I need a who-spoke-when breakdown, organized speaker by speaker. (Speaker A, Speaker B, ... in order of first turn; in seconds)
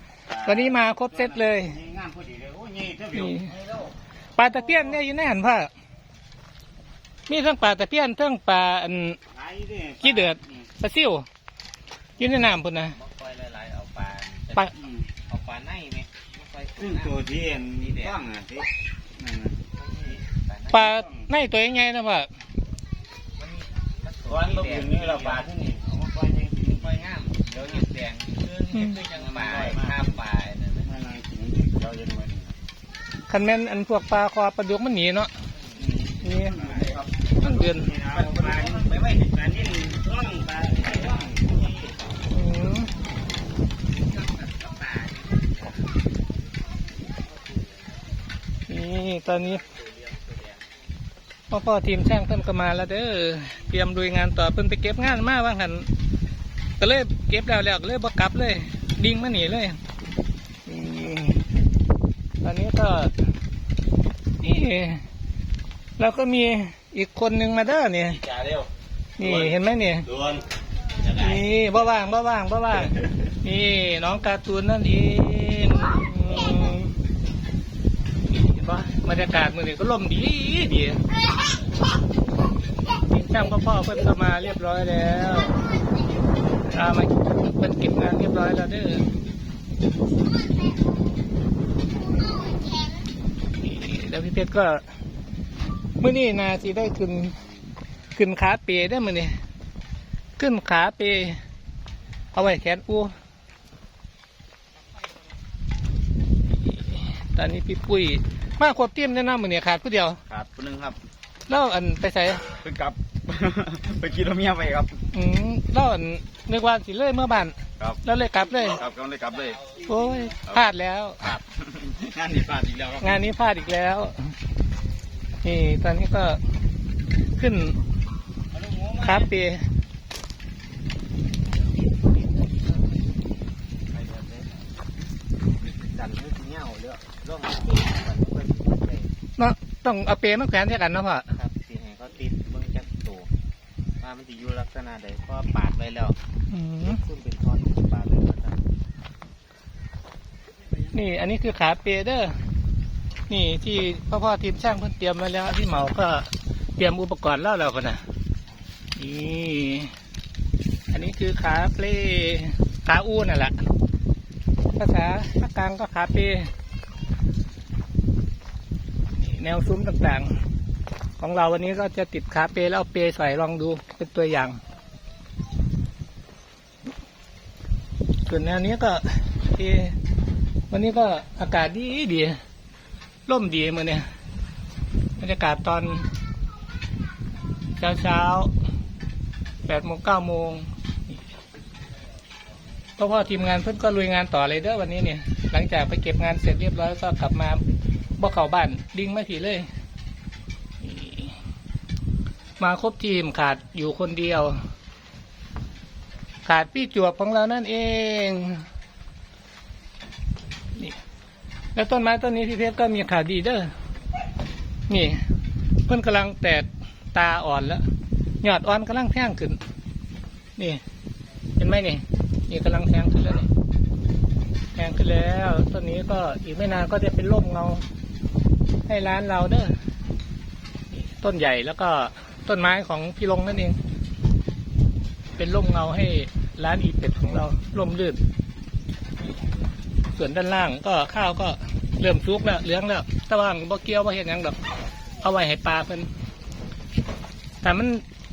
Speaker A: 0.3-3.9, 4.7-4.9, 9.3-10.7, 14.7-15.1, 16.8-19.6, 20.9-21.3, 24.3-27.8, 28.9-30.2, 30.8-32.5, 35.7-41.9, 68.2-68.7, 69.2-69.5, 70.1-70.4, 110.3-111.0, 112.5-115.0, 117.8-120.6, 121.3-123.2, 128.5-129.3
Speaker B: 0.4-1.8, 3.1-3.5, 4.3-5.7, 7.3-9.2, 10.0-11.2, 12.2-13.0, 20.7-22.3, 28.7-29.0, 33.3-35.3, 36.2-38.0, 42.3-42.9, 48.7-49.6, 51.5-55.9, 56.8-59.8, 60.7-61.5, 62.4-63.1, 64.4-65.0, 66.0-68.3, 69.2-70.1, 71.0-76.9, 78.3-81.0, 83.1-85.6, 86.7-89.0, 93.6-94.8, 96.0-97.4, 98.1-99.3, 100.4-101.4, 102.3-103.1, 106.5-110.2, 111.5-112.5, 115.1-118.8, 119.9-121.4, 123.0-124.3, 125.4-126.4, 127.4-127.8, 129.0-129.6, 139.4-141.3, 146.5-147.0, 150.9-152.3, 153.3-158.0, 158.9-159.9, 160.9-163.6, 164.8-166.5, 169.2-170.3, 171.2-174.6, 178.2-179.9, 180.7-182.3, 183.3-184.0, 185.2-186.1, 187.8-188.5, 189.7-190.7, 193.0-197.6, 198.2-199.7, 200.8-201.3, 202.6-204.5, 206.4-208.6, 211.7-213.7, 214.9-215.2, 215.9-217.8, 218.4-219.6, 220.6-220.8, 221.6-223.5, 224.7-227.8, 228.9-229.7, 230.9-233.8, 235.3-238.2, 240.1-244.6, 245.2-246.1, 247.6-248.0
Speaker C: 12.9-14.6, 15.3-17.2, 17.7-18.2, 19.8-20.9, 23.4-25.5, 26.7-30.9, 35.7-37.0, 38.1-39.7, 40.8-41.3, 44.0-45.9, 49.6-50.7, 133.9-134.6, 135.6-139.1, 141.3-143.3, 144.0-146.2, 146.8-148.7